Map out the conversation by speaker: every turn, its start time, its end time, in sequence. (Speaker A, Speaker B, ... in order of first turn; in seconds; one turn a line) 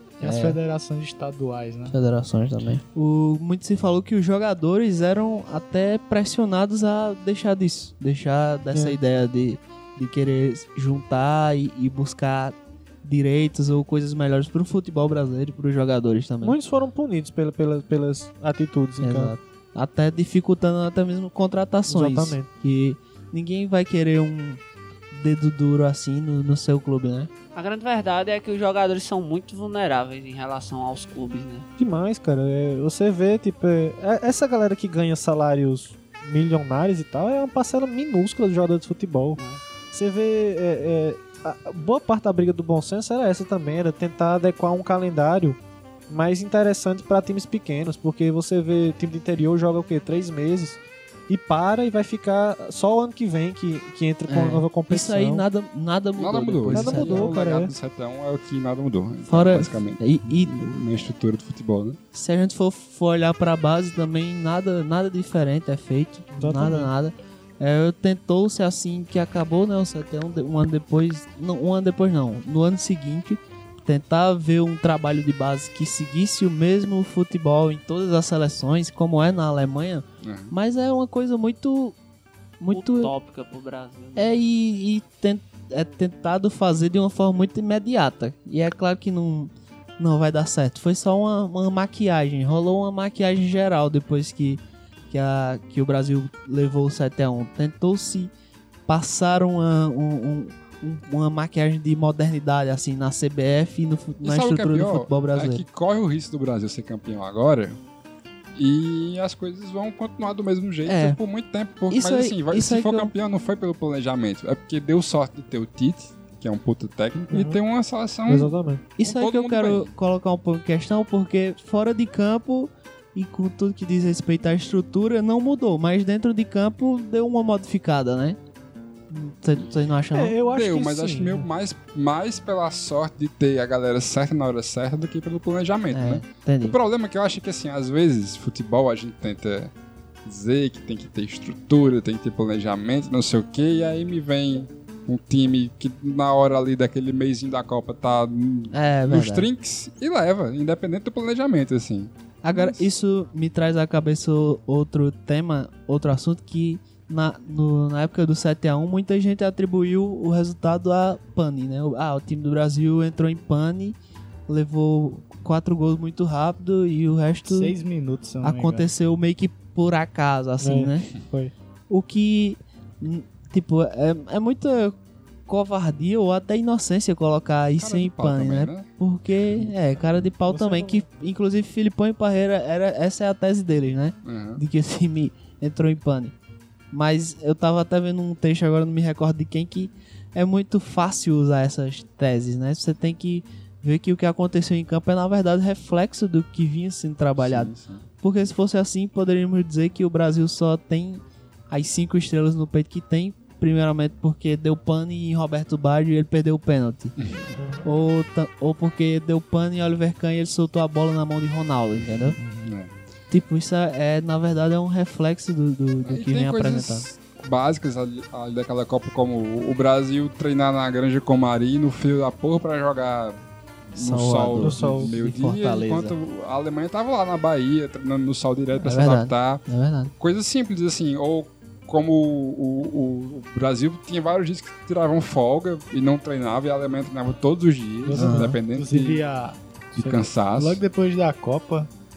Speaker A: 0.2-1.9
Speaker B: 0.2-0.6
Speaker B: 1.9-16.6
Speaker C: 16.4-19.3
Speaker B: 19.0-24.6
Speaker C: 21.9-22.5
Speaker B: 25.1-27.3
Speaker D: 27.5-31.6
Speaker C: 31.8-39.4
Speaker D: 39.4-39.6
Speaker C: 39.9-45.6
Speaker C: 46.1-55.5
Speaker B: 54.3-57.4
Speaker E: 56.2-62.0
Speaker C: 56.7-57.7
Speaker B: 59.3-60.7
Speaker B: 62.1-82.0
Speaker C: 66.3-66.9
Speaker E: 80.2-80.5
Speaker B: 82.6-83.1
Speaker D: 82.7-84.4
Speaker B: 84.2-98.3
Speaker B: 98.9-105.6
Speaker E: 104.2-107.8
Speaker E: 108.5-119.9
Speaker B: 110.8-111.2
Speaker B: 111.9-113.1
Speaker C: 117.3-117.6
Speaker C: 118.3-118.8
Speaker B: 119.0-128.4
Speaker B: 129.1-130.4
Speaker C: 130.1-131.5
Speaker E: 130.5-139.7
Speaker B: 135.9-136.8
Speaker E: 140.2-152.1
Speaker B: 148.7-149.5
Speaker B: 152.4-164.0
Speaker B: 164.5-167.7
Speaker A: 167.4-168.9
Speaker B: 168.4-171.1
Speaker C: 170.6-171.5
Speaker B: 171.9-174.9
Speaker B: 175.5-186.3
Speaker E: 177.8-178.9
Speaker C: 180.5-181.0
Speaker E: 184.2-184.6
Speaker B: 186.9-207.1
Speaker E: 197.4-198.0
Speaker E: 207.2-207.6
Speaker C: 207.6-207.8
Speaker B: 207.8-212.4
Speaker E: 212.2-212.9
Speaker A: 212.4-212.7
Speaker B: 213.3-217.1
Speaker E: 216.0-223.4
Speaker E: 223.9-229.6
Speaker B: 223.9-226.1
Speaker C: 224.6-225.1
Speaker B: 228.8-230.1
Speaker E: 230.2-239.2
Speaker A: 238.0-241.9
Speaker B: 238.1-238.6
Speaker E: 239.9-240.8